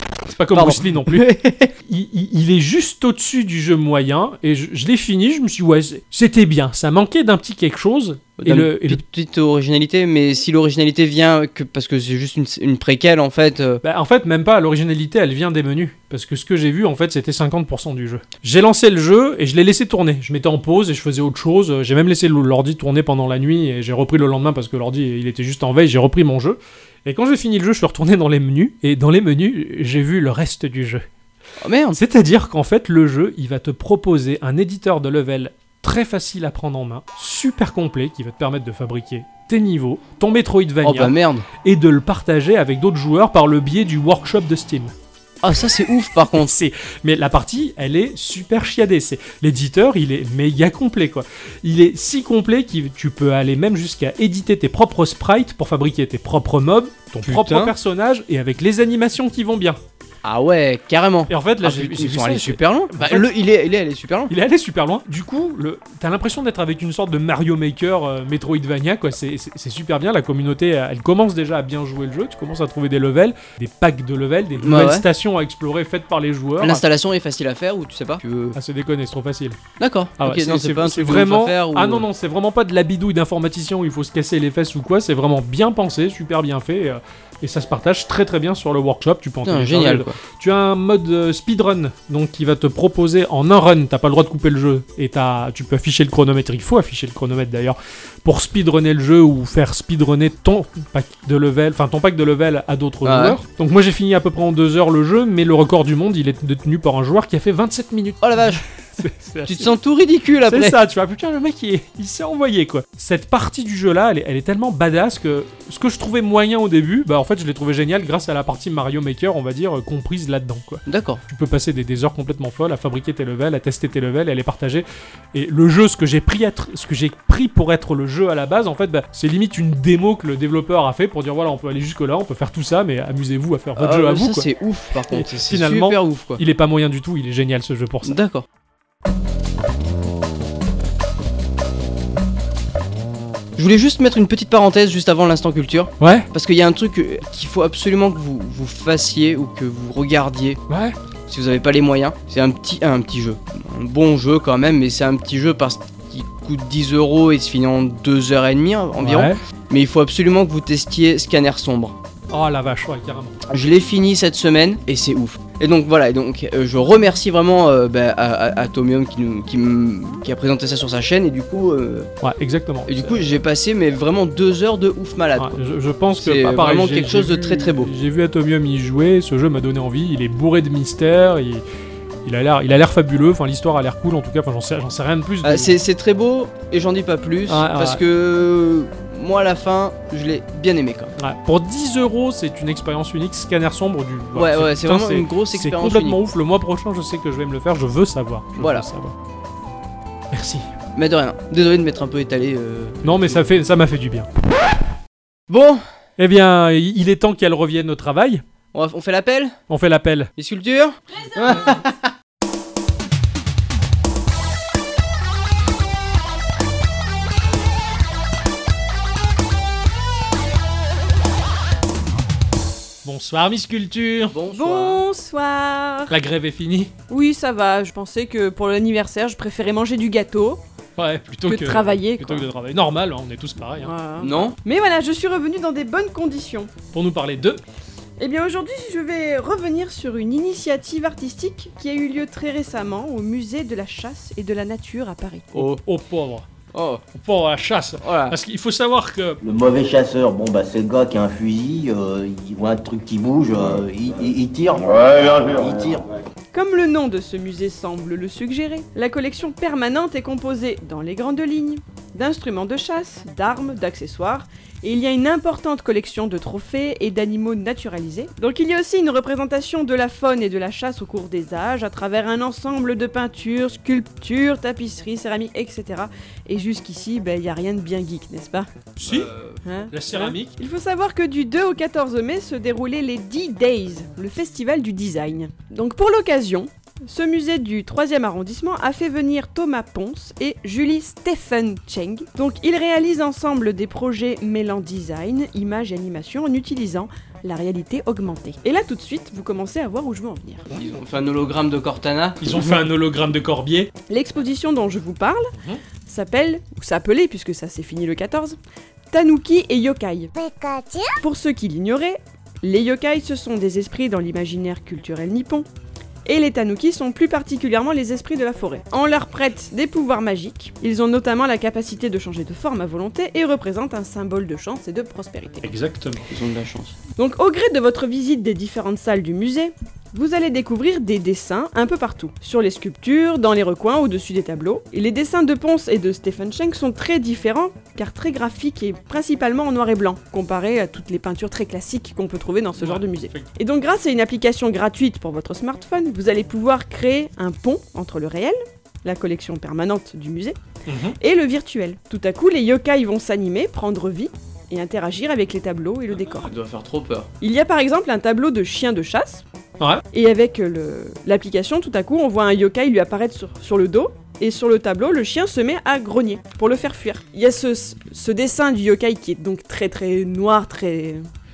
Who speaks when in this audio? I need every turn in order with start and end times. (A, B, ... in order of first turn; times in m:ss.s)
0:00.3-0:09.0 A
0:00.5-0:01.7 B
0:08.4-0:13.8 B
0:13.8-0:31.0 A
0:31.6-0:32.0 B
0:31.9-0:44.9 A
0:40.8-0:41.5 B
0:45.4-0:46.5 B
0:46.3-0:59.8 A
0:57.2-0:57.7 B
1:00.2-1:04.3 B
1:01.3-1:03.3 A
1:04.3-1:16.8 A
1:14.6-1:15.0 B
1:16.6-1:18.6 B
1:18.6-1:19.6 A
1:19.8-1:22.1 B
1:20.2-1:49.7 A
1:29.4-1:30.2 B
1:43.0-1:43.4 B
1:48.2-1:48.6 B
1:49.5-1:50.8 B
1:50.4-2:14.5 A
2:00.9-2:01.2 B
2:13.8-2:16.4 B
2:15.1-2:18.2 A
2:18.0-2:18.5 B
2:23.6-2:30.6 B
2:26.0-2:26.3 A
2:30.7-2:31.0 A
2:31.3-2:42.0 B
2:39.0-2:39.4 A
2:42.3-2:43.4 A
2:43.5-2:52.1 B
2:52.2-2:53.2 A
2:52.9-2:55.6 B
2:55.4-3:01.6 A
2:56.2-2:57.9 B
3:02.2-3:05.8 A
3:05.4-3:11.2 B
3:07.5-3:08.0 A
3:11.2-3:19.2 A
3:14.4-3:16.2 B
3:18.6-3:18.9 B
3:20.3-3:20.7 A
3:21.0-3:23.5 B
3:23.0-3:24.8 A
3:25.5-3:25.8 B
3:26.2-3:28.4 A
3:28.7-3:29.6 B
3:29.7-3:30.3 A
3:30.4-3:32.1 B
3:43.0-3:44.4 A
3:44.3-3:45.0 B
3:44.5-3:46.1 C
3:46.1-3:46.9 A
3:47.1-3:50.6 C
3:51.0-3:53.9 A
3:51.5-3:52.5 C
3:53.8-3:56.7 C
3:54.2-3:54.6 B
3:56.9-3:57.6 A
3:58.2-4:05.6 C
4:05.5-4:05.8 B
4:05.5-4:06.5 A
4:06.7-4:07.0 B
4:07.1-4:09.4 A
4:08.0-4:08.4 B
4:09.4-4:16.1 D
4:16.5-4:38.9 C
4:39.0-4:39.3 A
4:39.0-4:39.6 B
4:39.6-5:00.7 C
4:39.9-4:40.6 A
5:00.7-5:02.8 B
5:00.7-5:01.0 A
5:02.4-5:03.9 A
5:04.1-5:05.5 C
5:05.6-5:05.8 A
5:06.0-5:08.6 C
5:09.1-5:15.7 C
5:16.3-5:25.7 C
5:25.6-5:26.3 A
5:26.3-5:27.0 B
5:27.2-5:50.6 C
5:42.8-5:43.5 A
5:50.9-5:51.2 A
5:51.2-5:56.5 C
5:56.1-5:57.3 B
5:57.4-5:59.4 C
6:00.1-6:11.2 C